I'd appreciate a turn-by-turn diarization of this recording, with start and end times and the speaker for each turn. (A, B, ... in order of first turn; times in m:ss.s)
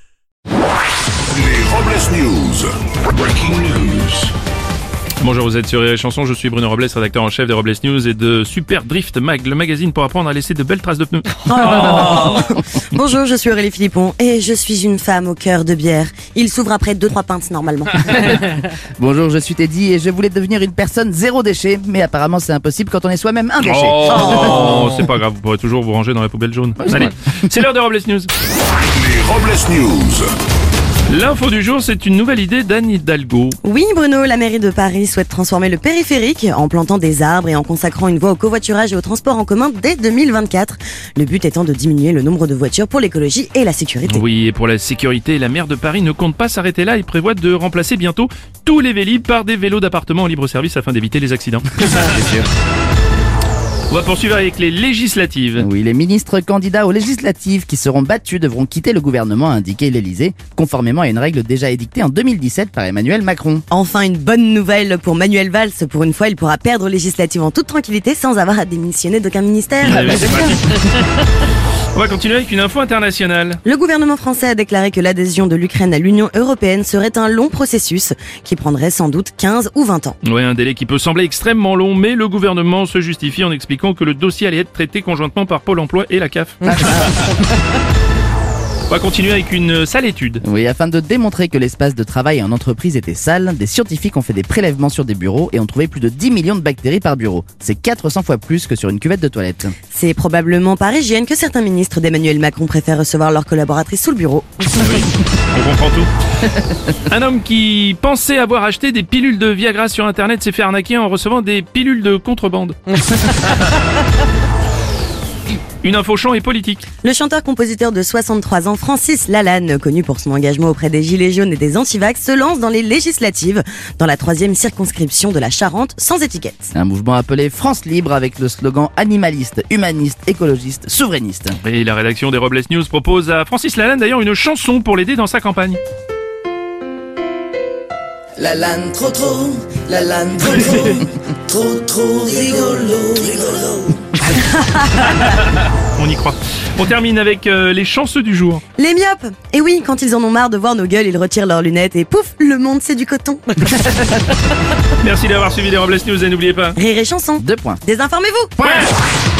0:01.3-0:04.3 A
0:05.2-0:12.4 B
0:11.4-0:18.1 C
0:18.0-0:24.5 D
0:23.6-0:28.3 B
0:24.0-0:24.7 C
0:26.8-0:27.1 D
0:28.9-0:30.3 A
0:31.1-0:33.6 B
0:33.6-0:44.2 C
0:44.1-0:52.2 B
0:51.8-0:52.5 D
0:53.9-0:55.7 B
0:55.6-1:03.6 D
1:03.7-1:10.1 C
1:09.8-1:11.0 B
1:09.9-1:10.7 D
1:11.9-1:13.6 B
1:13.6-1:20.2 C
1:20.2-1:27.3 B
1:26.7-1:27.1 D
1:28.9-1:30.4 B
1:30.4-1:39.7 D
1:39.9-1:44.8 C
1:44.8-1:46.1 B
1:47.0-1:53.6 B
1:55.8-1:56.9 B
1:57.0-2:06.7 C
2:06.8-2:11.6 D
2:11.6-2:15.8 B
2:18.4-2:24.0 E
2:24.5-2:24.8 C
2:25.0-2:28.6 B
2:28.8-2:33.6 C
2:35.0-2:36.8 B
2:36.8-2:38.5 C
2:37.4-2:37.8 D
2:38.6-2:38.9 B